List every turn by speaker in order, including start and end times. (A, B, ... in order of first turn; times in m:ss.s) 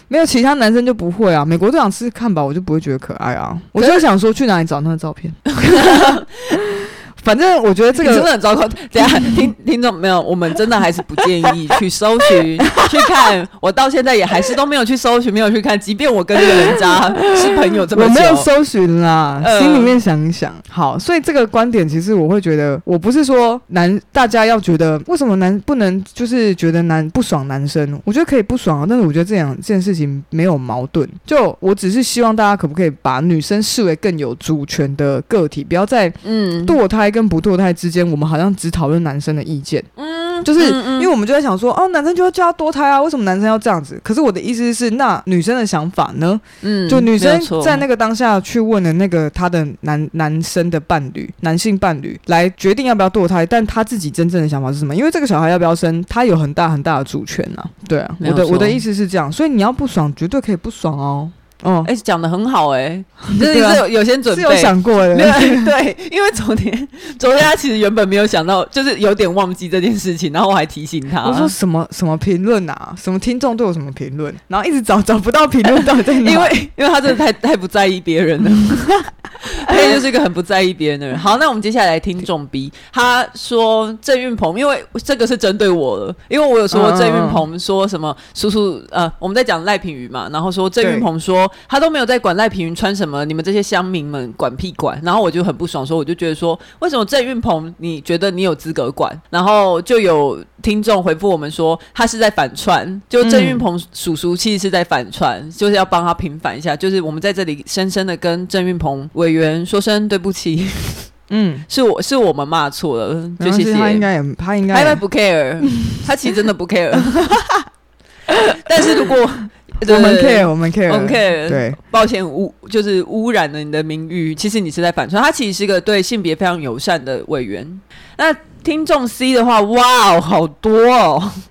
0:00.1-0:06.2 A
0:05.6-0:06.6 B
0:07.2-0:08.3 A
0:08.0-0:18.5 B
0:09.0-0:09.4 A
0:16.5-0:39.9 A
0:19.4-0:20.0 B
0:36.2-0:36.8 B
0:40.0-0:41.1 B
0:40.4-1:01.9 A
0:46.6-0:47.8 B
0:58.2-0:58.8 B
1:01.8-1:11.5 B
1:03.3-1:05.7 A
1:11.2-1:16.6 A
1:15.7-1:51.1 B
1:19.7-1:20.0 A
1:26.7-1:27.4 A
1:30.8-1:31.1 A
1:43.2-1:43.6 A
1:51.3-1:51.7 A
1:51.7-1:54.1 B
1:53.4-1:55.0 A
1:54.7-1:57.4 B
1:55.7-1:56.0 A
1:57.2-1:57.5 A
1:58.5-2:11.4 B
1:59.8-2:01.8 A